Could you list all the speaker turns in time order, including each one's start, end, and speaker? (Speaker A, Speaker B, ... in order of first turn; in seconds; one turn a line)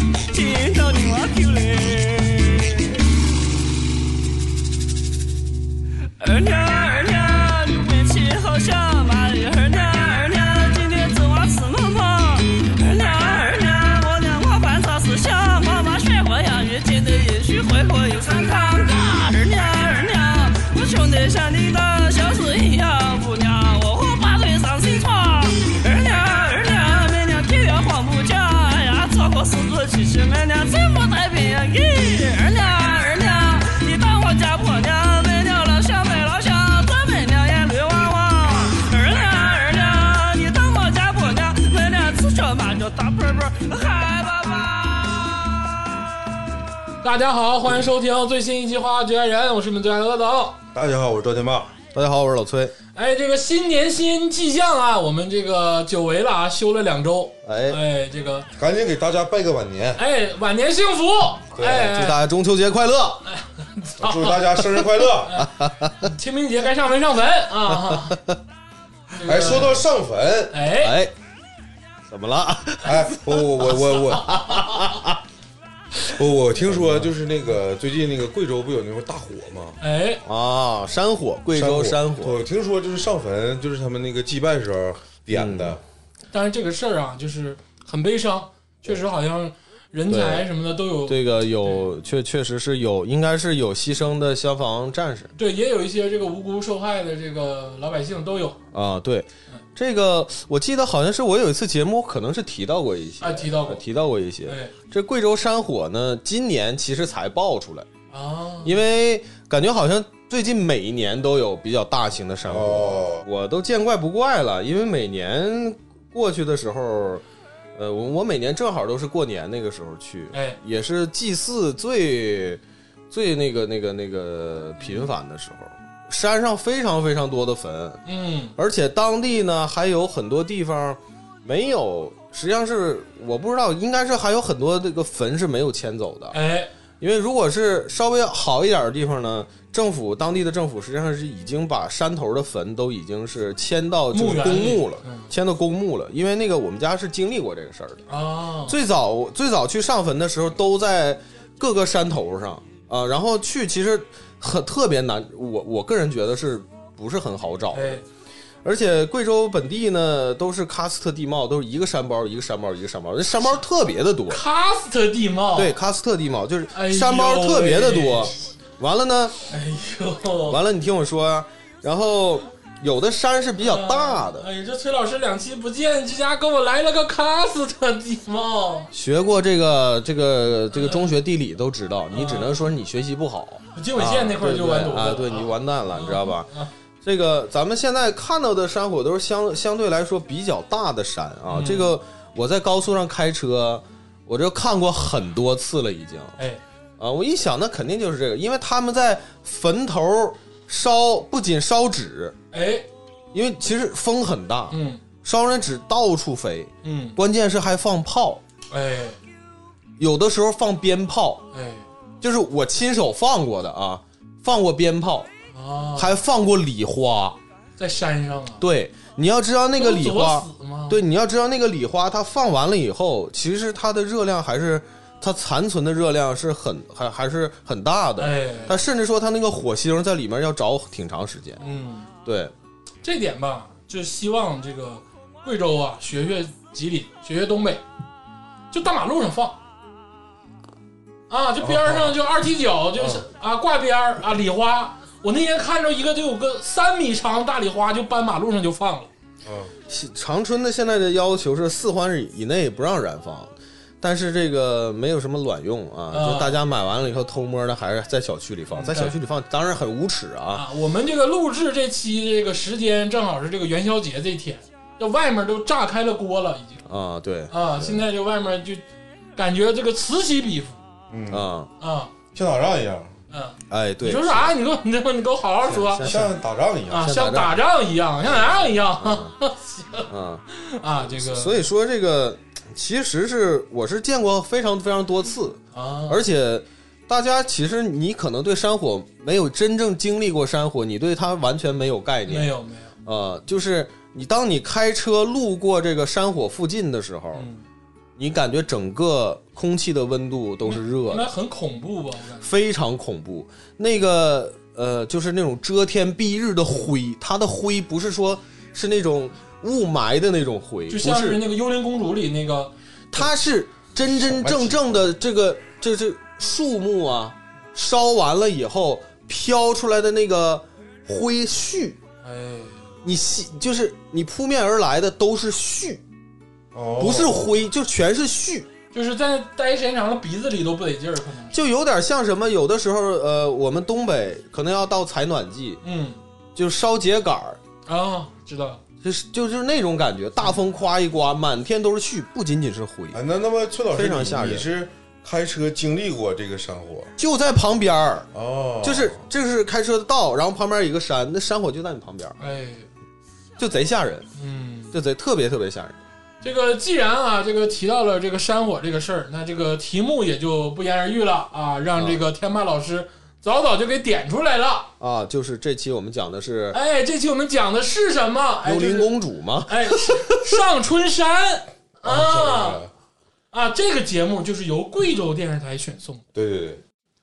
Speaker A: 0.3-3.0
Speaker A: 6.2-45.9
Speaker B: 47.0-50.6
Speaker C: 50.7-51.8
Speaker D: 51.9-52.8
Speaker B: 53.0-58.5
Speaker D: 57.5-57.8
Speaker C: 58.6-60.0
Speaker B: 60.0-62.2
Speaker C: 61.6-61.9
Speaker D: 61.6-63.2
Speaker B: 63.3-64.6
Speaker C: 64.0-65.4
Speaker B: 65.2-65.5
Speaker D: 65.3-66.1
Speaker B: 66.0-68.2
Speaker D: 67.6-68.4
Speaker B: 69.2-69.8
Speaker C: 69.2-70.5
Speaker D: 69.3-69.8
Speaker B: 70.5-71.0
Speaker D: 70.8-71.1
Speaker D: 72.1-75.2
Speaker C: 72.8-74.5
Speaker C: 76.1-79.8
Speaker D: 76.6-77.1
Speaker B: 79.8-80.2
Speaker D: 80.2-82.4
Speaker C: 81.5-85.8
Speaker D: 85.3-85.8
Speaker B: 86.3-91.9
Speaker D: 90.1-90.5
Speaker D: 91.1-95.3
Speaker B: 95.4-98.6
Speaker D: 98.7-107.9
Speaker B: 103.2-103.8
Speaker B: 104.5-104.7
Speaker B: 108.1-108.8
Speaker D: 108.6-128.0
Speaker C: 112.5-113.2
Speaker B: 120.3-120.6
Speaker B: 124.8-125.1
Speaker B: 128.1-128.6
Speaker D: 128.6-136.4
Speaker B: 136.3-136.7
Speaker D: 137.0-148.1
Speaker B: 144.1-145.3
Speaker B: 148.1-148.8
Speaker D: 148.7-158.0
Speaker B: 157.7-158.1
Speaker D: 158.6-164.4
Speaker B: 164.3-165.8
Speaker D: 165.5-169.4
Speaker B: 166.7-168.3
Speaker B: 169.5-170.6
Speaker D: 170.4-174.5
Speaker B: 173.7-178.9
Speaker D: 178.9-186.5
Speaker B: 180.7-181.1
Speaker B: 182.1-182.6
Speaker B: 183.8-186.7
Speaker D: 187.0-196.4
Speaker B: 191.5-191.9
Speaker D: 197.0-202.4
Speaker B: 202.5-202.9
Speaker D: 203.3-208.4
Speaker B: 204.7-205.0
Speaker B: 206.8-207.2
Speaker B: 208.7-209.2
Speaker D: 210.0-211.5
Speaker B: 211.5-211.9
Speaker D: 212.2-215.3
Speaker B: 215.5-216.2
Speaker D: 216.0-217.4
Speaker B: 217.8-218.6
Speaker D: 218.6-231.6
Speaker B: 219.8-221.0
Speaker B: 228.2-228.8
Speaker B: 231.6-232.1
Speaker D: 232.2-232.5
Speaker B: 233.0-237.8
Speaker B: 238.7-239.6
Speaker B: 241.3-249.1
Speaker C: 241.6-242.2
Speaker C: 243.0-243.2
Speaker C: 249.4-249.7
Speaker D: 249.9-260.7
Speaker B: 256.1-256.6
Speaker B: 258.7-259.2
Speaker B: 260.5-266.8
Speaker D: 266.9-268.1
Speaker B: 267.5-268.8
Speaker B: 269.4-270.8
Speaker C: 271.1-271.5
Speaker D: 271.3-271.7
Speaker B: 271.8-272.1
Speaker C: 272.3-273.1
Speaker B: 273.3-276.1
Speaker D: 273.7-274.5
Speaker D: 275.6-276.4
Speaker C: 276.0-277.2
Speaker D: 276.9-277.6
Speaker B: 276.9-281.6
Speaker D: 278.3-279.4
Speaker D: 280.1-280.4
Speaker D: 281.1-292.5
Speaker B: 285.7-286.2
Speaker B: 292.3-292.9
Speaker D: 293.1-297.5
Speaker B: 297.4-297.6
Speaker D: 298.2-301.3
Speaker B: 300.6-302.5
Speaker D: 302.4-311.4
Speaker B: 310.9-313.3
Speaker D: 313.1-322.0
Speaker C: 314.2-314.9
Speaker B: 322.2-322.8
Speaker D: 323.0-326.0
Speaker C: 326.7-327.5
Speaker D: 327.0-328.7
Speaker B: 328.9-331.6
Speaker D: 331.5-335.8
Speaker B: 335.8-336.2
Speaker D: 336.6-337.6
Speaker B: 337.9-338.8
Speaker D: 339.0-343.2
Speaker C: 343.1-347.1
Speaker D: 343.9-344.7
Speaker D: 347.2-348.3
Speaker C: 348.3-349.2
Speaker D: 348.8-352.4
Speaker B: 352.4-352.9
Speaker D: 353.6-354.3
Speaker B: 354.4-354.9
Speaker D: 354.9-356.0
Speaker B: 356.4-364.9
Speaker D: 361.9-362.2
Speaker D: 365.0-366.8
Speaker B: 366.7-372.8
Speaker D: 368.6-370.7
Speaker C: 372.0-372.9
Speaker B: 373.5-376.2
Speaker C: 376.4-376.8